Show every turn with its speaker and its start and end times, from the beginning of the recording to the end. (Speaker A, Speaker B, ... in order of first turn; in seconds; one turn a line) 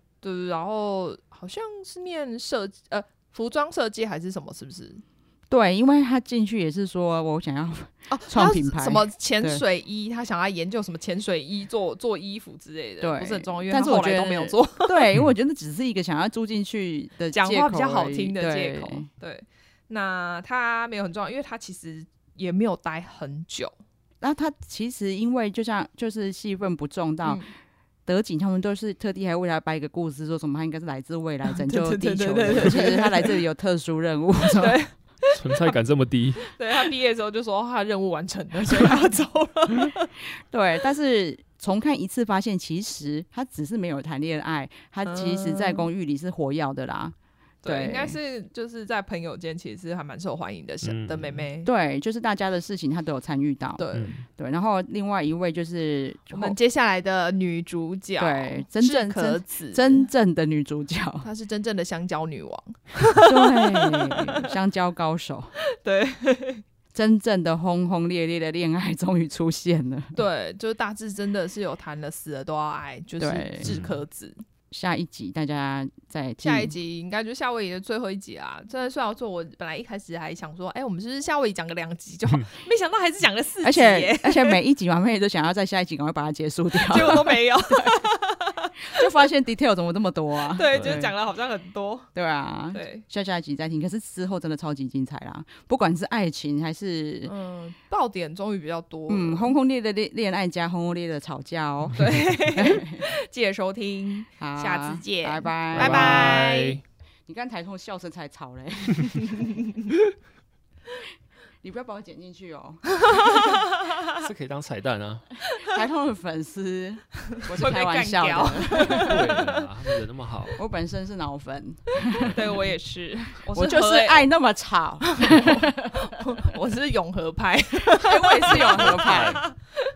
Speaker A: 0.2-5.0
Speaker B: 5.5-9.6
Speaker A: 8.1-15.0
Speaker B: 13.0-19.1
Speaker A: 17.3-23.7
Speaker B: 24.2-27.4
Speaker A: 27.2-27.5
Speaker B: 28.1-34.8
Speaker A: 31.5-33.4
Speaker A: 34.5-35.8
Speaker C: 35.4-36.5
Speaker A: 36.4-40.1
Speaker B: 38.7-39.0
Speaker B: 40.5-48.1
Speaker A: 45.0-45.9
Speaker A: 47.6-51.7
Speaker C: 50.8-51.4
Speaker B: 51.6-56.5
Speaker A: 53.8-54.1
Speaker C: 53.9-54.2
Speaker A: 56.3-60.1
Speaker B: 58.2-61.2
Speaker A: 61.2-64.4
Speaker B: 63.2-65.5
Speaker A: 65.8-66.6
Speaker B: 66.9-70.2
Speaker A: 70.1-74.4
Speaker B: 73.2-73.7
Speaker C: 73.6-73.9
Speaker B: 74.7-76.7
Speaker A: 76.4-84.6
Speaker B: 83.6-88.0
Speaker A: 86.8-89.0
Speaker B: 88.9-91.0
Speaker A: 90.5-92.1
Speaker C: 90.7-91.1
Speaker B: 92.1-97.3
Speaker A: 92.7-93.0
Speaker A: 97.2-99.5
Speaker B: 99.1-103.0
Speaker A: 102.0-106.8
Speaker B: 104.4-106.4
Speaker C: 105.7-106.8
Speaker B: 107.3-109.5
Speaker B: 111.6-113.3
Speaker A: 113.0-114.0
Speaker C: 114.2-115.3
Speaker B: 115.6-119.3
Speaker A: 117.5-119.6
Speaker C: 118.9-120.6
Speaker B: 120.6-122.4
Speaker A: 122.2-124.2
Speaker B: 123.5-126.0
Speaker A: 125.0-129.5
Speaker B: 127.9-129.4
Speaker C: 128.5-129.4